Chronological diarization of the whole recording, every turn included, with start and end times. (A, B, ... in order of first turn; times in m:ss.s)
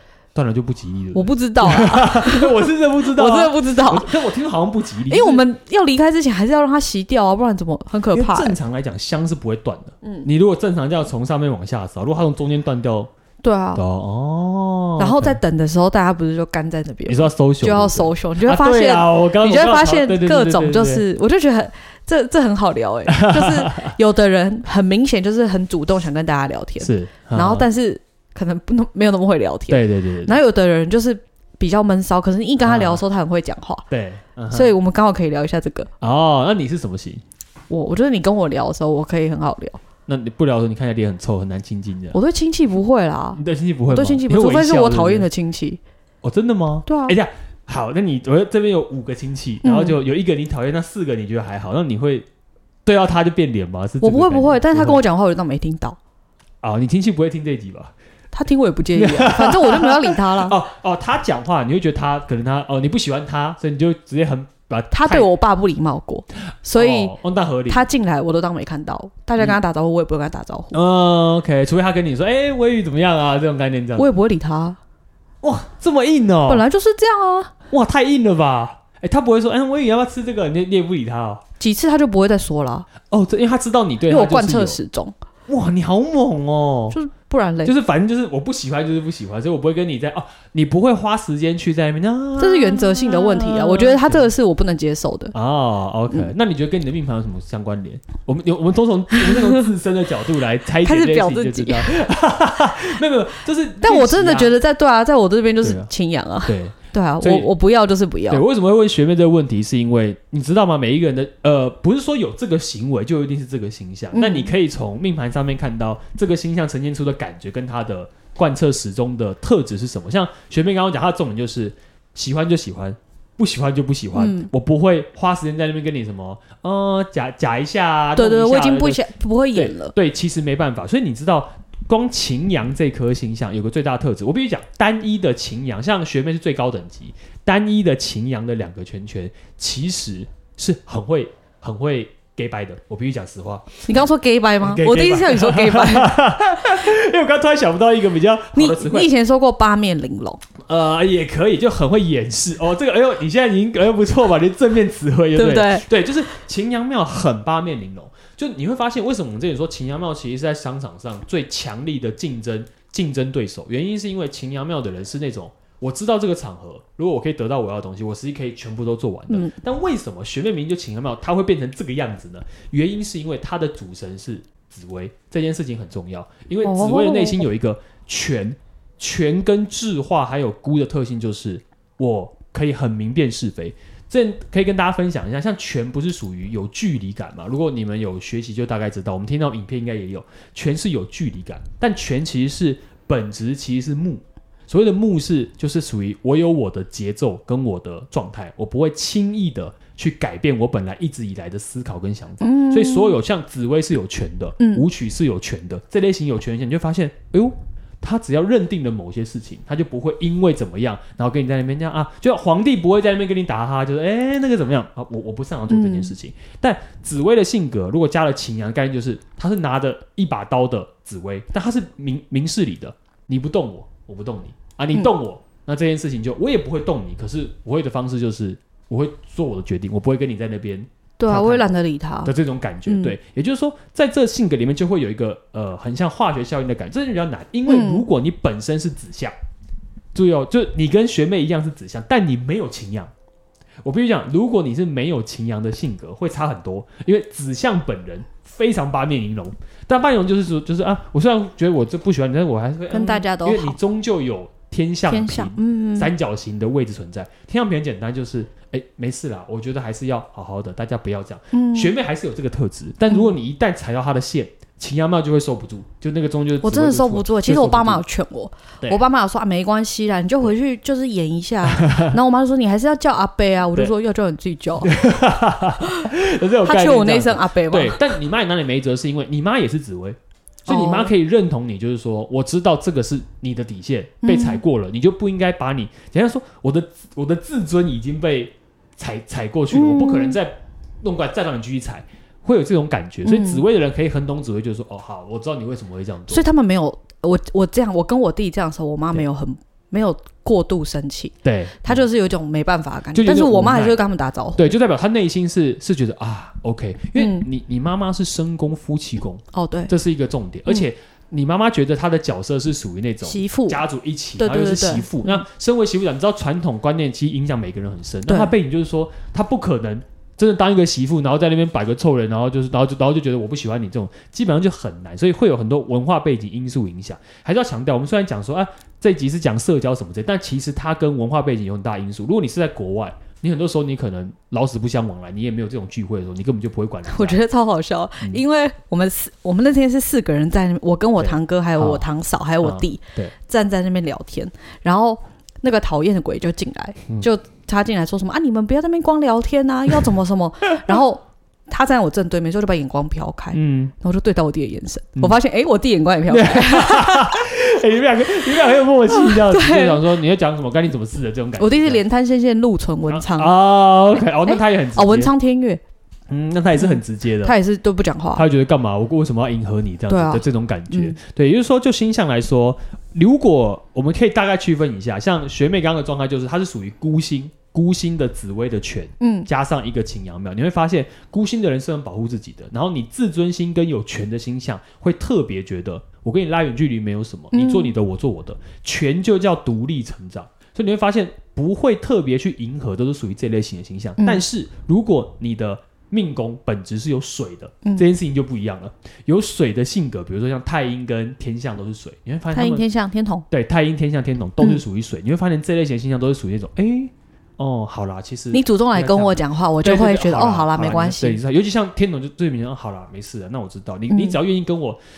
0:00.3-0:05.4 A
0:01.1-0:04.1 B
0:05.1-0:08.6 B
0:08.1-0:13.1 A
0:10.0-0:10.3 B
0:13.4-0:13.8 B
0:13.7-0:15.4 A
0:15.0-0:33.8 B
0:17.0-0:21.0 A
0:23.1-0:23.9 A
0:26.8-0:27.7 A
0:29.7-0:30.4 A
0:32.6-0:33.0 A
0:33.9-0:34.7 A
0:34.5-0:35.9 B
0:36.0-0:37.2 A
0:37.7-0:39.8 B
0:40.1-0:42.2 A
0:42.1-0:45.8 B
0:43.3-0:45.3 A
0:46.2-0:52.3 A
0:46.8-0:47.2 B
0:49.6-0:50.0 B
0:52.8-0:55.0 A
0:54.0-0:56.0 B
0:56.6-0:57.9 A
0:58.3-1:00.6 B
0:58.9-1:05.3 A
1:04.9-1:07.1 B
1:06.7-1:07.9 A
1:07.7-1:10.8 B
1:10.7-1:14.1 A
1:14.0-1:14.8 B
1:15.4-1:16.6 A
1:16.5-1:17.5 B
1:17.7-1:21.4 A
1:21.6-1:22.9 B
1:23.1-1:24.8 A
1:24.1-1:25.1 B
1:25.5-1:27.0 A
1:26.9-1:27.7 B
1:27.6-1:34.3 A
1:32.4-1:35.3 B
1:35.3-1:44.5 A
1:39.2-1:39.6 B
1:40.8-1:42.0 B
1:43.8-1:48.4 B
1:45.6-1:45.9 A
1:46.4-1:47.5 A
1:48.3-2:09.0 A
1:54.1-1:54.5 B
2:04.1-2:04.5 B
2:08.2-2:09.9 B
2:09.5-2:23.8 A
2:23.8-2:26.1 B
2:24.6-2:29.1 A
2:28.5-2:30.4 B
2:30.6-3:51.7 A
2:35.3-2:35.9 B
2:49.3-2:49.5 B
2:56.6-2:57.4 B
3:22.4-3:23.2 B
3:24.6-3:24.8 B
3:35.7-3:36.1 B
3:51.2-3:52.3 B
3:52.2-3:59.3 A
3:52.8-3:53.2 B
3:57.7-3:58.0 B
4:00.1-4:03.1 A
4:03.8-4:28.0 A
4:12.9-4:13.8 B
4:15.1-4:16.1 B
4:21.5-4:21.9 B
4:26.6-4:34.9 B
4:31.6-4:32.2 A
4:34.8-4:56.4 A
4:35.8-4:36.1 B
4:36.6-4:38.1 B
4:40.7-4:41.1 B
4:44.2-4:44.6 B
4:49.7-4:50.4 B
4:53.2-4:53.6 B
4:56.3-5:04.7 B
5:01.4-5:02.0 A
5:03.1-5:04.0 A
5:04.6-5:37.4 A
5:07.2-5:07.5 B
5:09.5-5:09.9 B
5:13.2-5:13.8 B
5:14.4-5:15.4 B
5:18.3-5:18.5 B
5:37.1-5:57.4 B
5:41.2-5:42.0 A
5:42.6-5:43.3 A
5:53.5-5:53.9 A
5:56.3-6:02.0 A
5:59.1-6:00.0 B
6:01.6-6:03.5 B
6:03.1-6:05.3 A
6:04.4-6:05.8 B
6:06.3-6:07.6 A
6:06.8-6:08.4 B
6:08.3-6:42.9 A
6:10.1-6:11.2 B
6:19.2-6:19.5 B
6:27.5-6:27.9 B
6:34.2-6:34.4 B
6:42.5-6:43.4 B
6:43.5-6:55.0 A
6:48.5-6:51.4 B
6:54.1-6:54.4 B